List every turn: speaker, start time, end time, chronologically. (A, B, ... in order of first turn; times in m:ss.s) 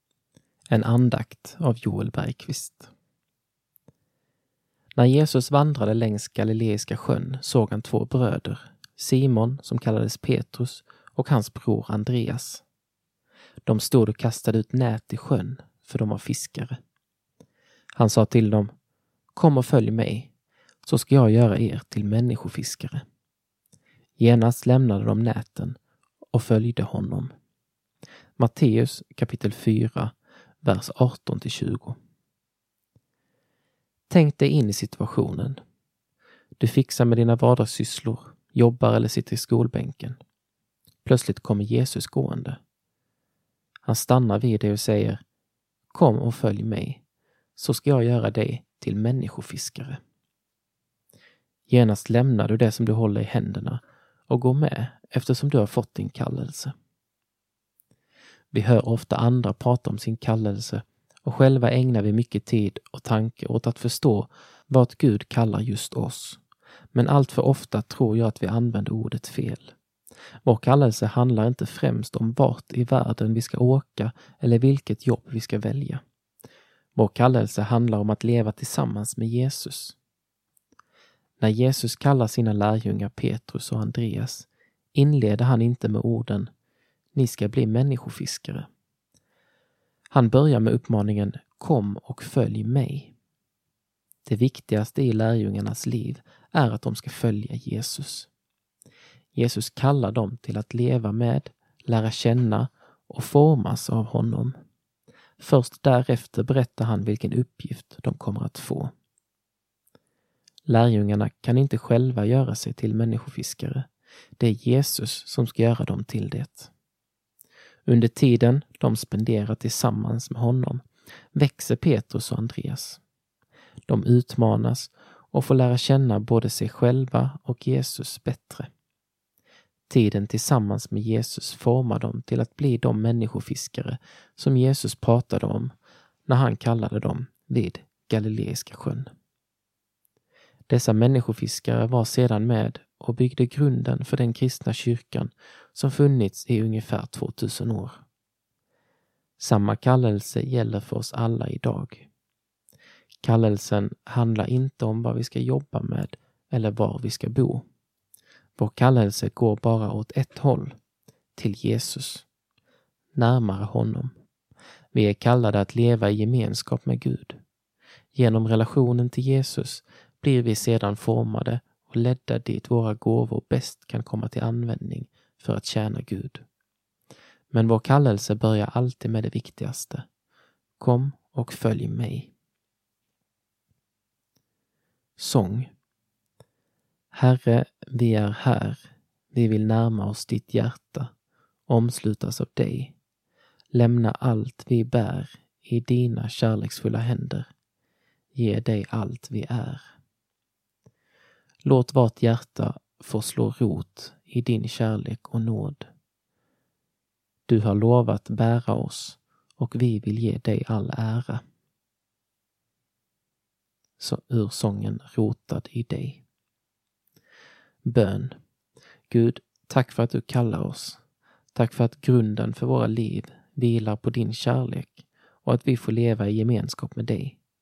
0:00.7-0:02.9 A
0:05.0-0:12.6 A
0:13.6-0:16.8 A
0:18.0-0:18.7 A
0:19.4-0:20.3 A
0:20.8-0:23.0 A
0:24.2-0:25.8 A
0:26.3-0:27.3 A
0:28.4-0:32.0 A
0:34.1-0:35.6 A
0:36.6-0:40.2 A
0:41.0-0:42.6 A
0:43.8-0:45.2 A
0:45.9-0:47.0 A
0:47.6-0:50.0 A
0:51.7-0:56.7 A
0:58.5-1:06.4 A
1:06.9-1:09.8 A
1:10.4-1:16.0 A
1:17.0-1:20.0 A
1:21.4-1:26.5 A
1:27.1-1:28.7 A
1:30.1-1:33.1 A
1:34.3-1:38.3 A
1:39.4-1:44.6 A
1:45.4-1:48.9 A
1:50.7-1:56.7 A
1:57.9-2:00.8 A
2:01.3-2:03.0 A
2:03.9-2:08.7 A
2:09.9-2:15.7 A
2:16.3-2:19.1 A
2:20.7-2:28.0 A
2:29.4-2:32.1 A
2:33.2-2:37.6 A
2:38.6-2:40.8 A
2:41.4-2:42.3 A
2:43.1-2:44.1 A
2:44.9-2:47.4 A
2:48.1-2:56.4 A
2:57.5-3:00.1 A
3:00.8-3:02.3 A
3:05.2-3:05.7 A
3:07.1-3:11.1 A
3:11.7-3:13.0 A
3:13.7-3:17.5 A
3:18.3-3:19.8 A
3:21.6-3:25.9 A
3:27.5-3:31.4 A
3:34.0-3:36.2 A
3:37.8-3:38.4 A
3:39.1-3:41.0 A
3:41.6-3:47.4 A